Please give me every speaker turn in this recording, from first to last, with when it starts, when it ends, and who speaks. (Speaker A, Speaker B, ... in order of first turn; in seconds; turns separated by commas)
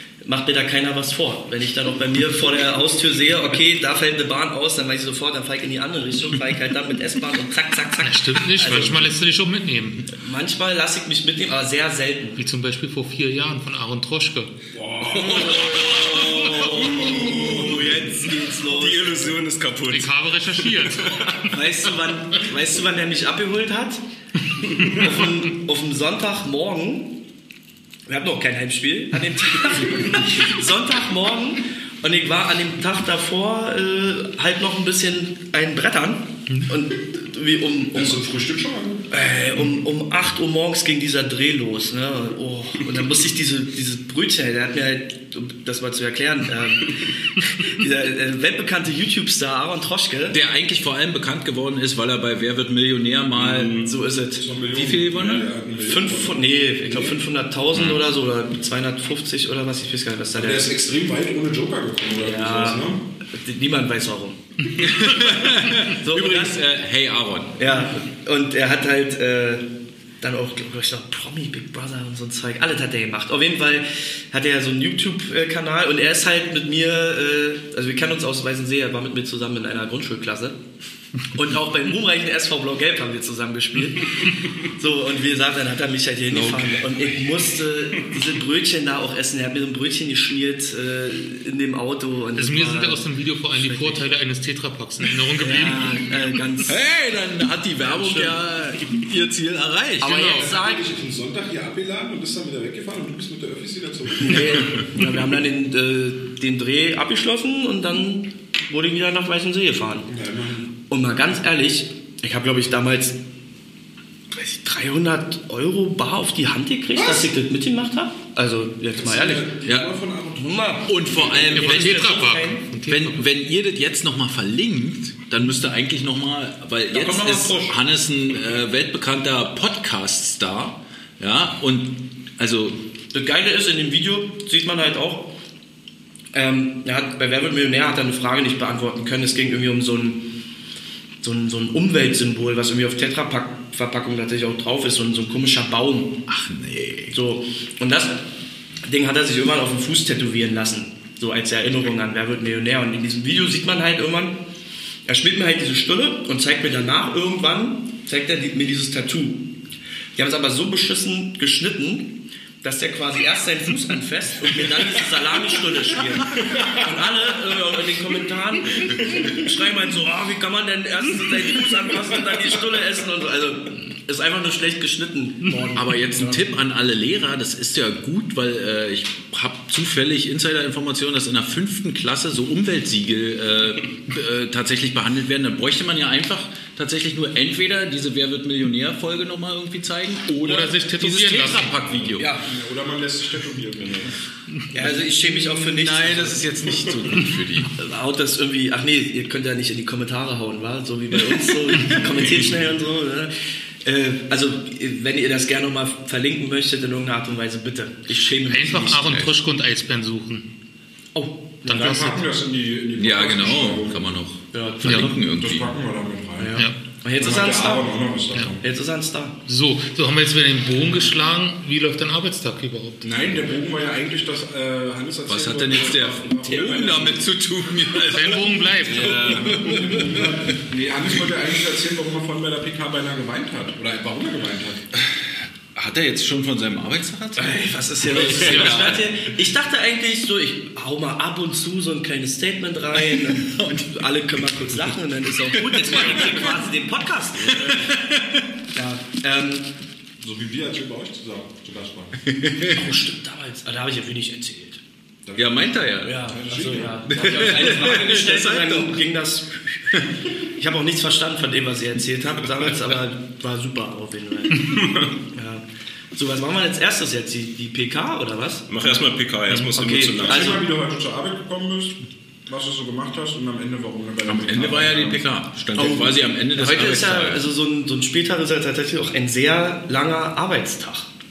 Speaker A: 0.2-9.1, Speaker B: 8.0-10.1, Speaker A: 10.1-12.4, Speaker B: 12.4-14.5, Speaker C: 14.7-15.8, Speaker A: 15.1-19.4, Speaker D: 15.7-16.6, Speaker B: 16.2-16.9, Speaker E: 16.9-17.8, Speaker C: 17.0-17.9, Speaker E: 18.6-21.3, Speaker B: 19.9-21.6, Speaker A: 21.5-24.0, Speaker A: 24.8-27.2, Speaker A: 28.1-38.2, Speaker C: 37.9-39.1, Speaker A: 39.1-50.4, Speaker D: 50.3-53.8, Speaker E: 53.4-53.9, Speaker A: 53.8-54.5, Speaker C: 54.4-57.2, Speaker D: 54.7-55.5, Speaker A: 55.8-60.7, Speaker D: 57.7-58.0, Speaker C: 60.3-63.0, Speaker A: 62.2-64.8, Speaker D: 64.7-67.7, Speaker A: 65.9-66.6, Speaker A: 67.6-69.7, Speaker A: 70.2-80.6, Speaker A: 81.3-94.0, Speaker B: 92.3-96.0, Speaker A: 95.4-96.8, Speaker D: 96.7-100.2, Speaker A: 97.8-98.4, Speaker A: 100.0-100.8, Speaker B: 100.0-100.5, Speaker C: 100.3-104.8, Speaker A: 104.2-110.1, Speaker C: 110.1-110.7, Speaker A: 110.9-113.2, Speaker A: 114.3-119.5, Speaker C: 116.9-117.3, Speaker C: 118.9-121.4, Speaker D: 119.6-119.9, Speaker A: 120.4-122.6, Speaker D: 120.8-122.2, Speaker B: 121.5-123.2, Speaker D: 122.9-132.8, Speaker E: 126.9-127.7, Speaker A: 133.1-135.3, Speaker A: 136.3-140.2, Speaker A: 141.2-146.2, Speaker D: 146.3-147.2, Speaker A: 147.1-148.2, Speaker A: 148.8-154.4, Speaker A: 155.1-159.5, Speaker A: 160.2-176.4, Speaker D: 175.7-192.3, Speaker B: 190.4-191.7, Speaker C: 191.9-194.1, Speaker A: 192.2-192.5, Speaker E: 193.8-194.1, Speaker A: 194.7-196.9, Speaker D: 194.8-197.7, Speaker A: 197.7-203.3, Speaker D: 201.7-202.4, Speaker A: 203.8-209.2, Speaker B: 208.5-210.5, Speaker A: 211.1-212.2, Speaker B: 211.7-212.2, Speaker C: 211.7-214.1, Speaker D: 212.9-215.7, Speaker A: 214.5-215.1, Speaker B: 214.8-215.1, Speaker C: 215.3-216.6, Speaker A: 216.4-217.9, Speaker C: 217.2-218.6, Speaker A: 218.6-219.4, Speaker B: 219.4-223.1, Speaker C: 223.0-227.3, Speaker D: 225.3-230.6, Speaker B: 228.1-229.5, Speaker C: 229.1-234.8, Speaker D: 235.0-239.2, Speaker A: 237.4-247.8, Speaker B: 238.3-238.9, Speaker D: 243.1-244.9, Speaker D: 245.4-246.6, Speaker D: 247.4-248.4, Speaker A: 248.7-249.7, Speaker C: 250.2-252.2, Speaker D: 252.2-252.9, Speaker A: 252.7-254.8, Speaker C: 255.2-257.3, Speaker D: 255.3-256.4, Speaker A: 256.0-268.7, Speaker D: 257.0-258.9, Speaker E: 264.7-265.0, Speaker E: 268.7-270.6, Speaker A: 269.7-270.6, Speaker C: 270.2-275.2, Speaker D: 274.3-277.4, Speaker A: 275.8-281.1